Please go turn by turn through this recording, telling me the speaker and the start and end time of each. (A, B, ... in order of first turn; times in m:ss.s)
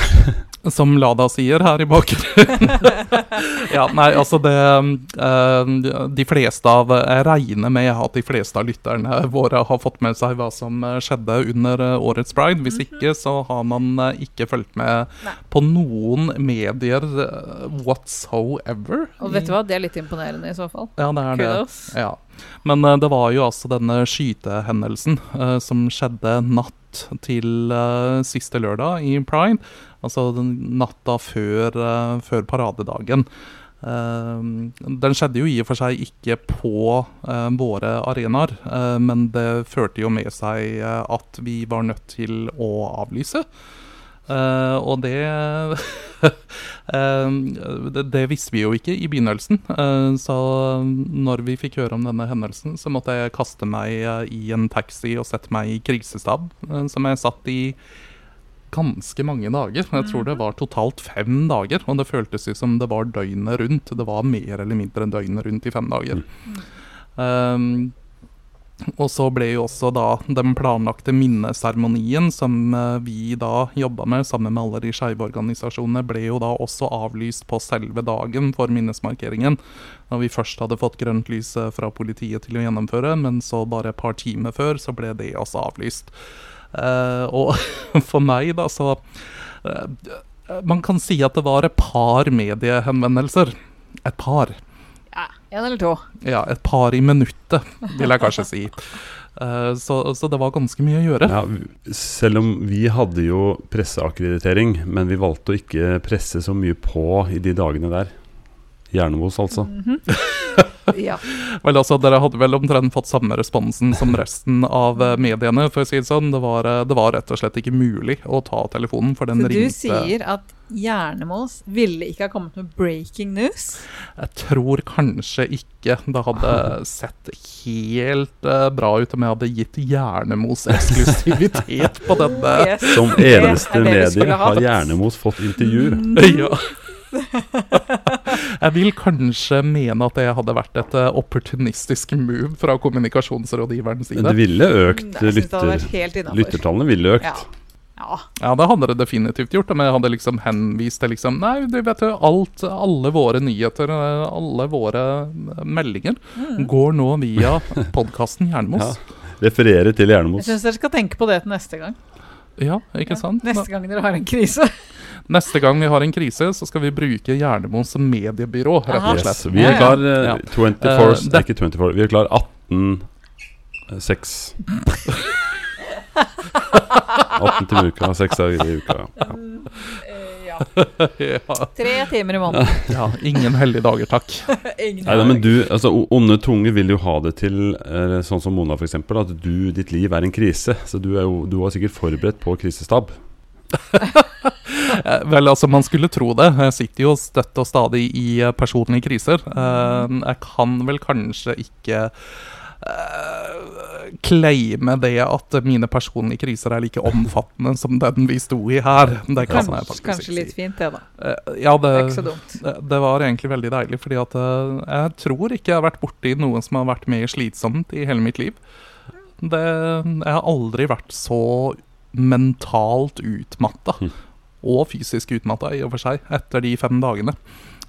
0:00.6-0:19.5 A
0:19.2-0:21.9 B
0:21.0-0:33.2 A
0:33.8-0:43.4 A
0:44.3-0:57.8 A
0:58.7-1:06.2 A
1:07.2-1:07.9 A
1:08.9-1:19.6 A
1:20.1-1:26.1 A
1:26.7-1:34.6 A
1:35.1-1:36.0 B
1:36.2-1:41.4 A
1:41.2-1:48.1 C
1:48.9-1:49.7 C
1:49.6-1:50.0 B
1:50.3-1:50.6 A
1:50.9-1:51.2 B
1:51.2-2:00.1 A
1:55.0-1:55.2 B
1:59.3-2:03.8 B
2:04.2-2:13.6 A
2:12.1-2:14.9 B
2:12.9-2:16.2 C
2:15.6-2:16.5 B
2:16.1-2:16.7 A
2:17.1-2:18.2 B
2:18.1-2:24.4 A
2:24.1-2:27.4 C
2:24.9-2:26.6 B
2:28.0-2:28.2 B
2:28.4-2:39.0 A
2:36.4-2:36.7 B
2:38.7-2:40.6 C
2:40.4-2:42.0 B
2:42.6-2:43.6 A
2:43.4-2:44.7 B
2:45.3-2:51.4 A
2:48.9-2:50.0 B
2:49.0-2:53.0 C
2:53.9-2:54.6 C
2:56.7-2:57.3 B
2:57.2-2:59.4 C
2:59.2-3:00.8 B
3:01.0-3:01.7 A
3:01.7-3:02.9 B
3:02.6-3:02.9 C
3:02.9-3:04.5 A
3:04.5-3:05.5 B
3:05.0-3:13.1 C
3:13.9-3:22.1 A
3:19.6-3:20.0 B
3:22.7-3:30.5 A
3:29.4-3:31.0 B
3:29.5-3:29.9 C
3:31.2-3:38.6 A
3:31.9-3:32.6 B
3:39.4-3:44.1 A
3:44.6-3:47.4 A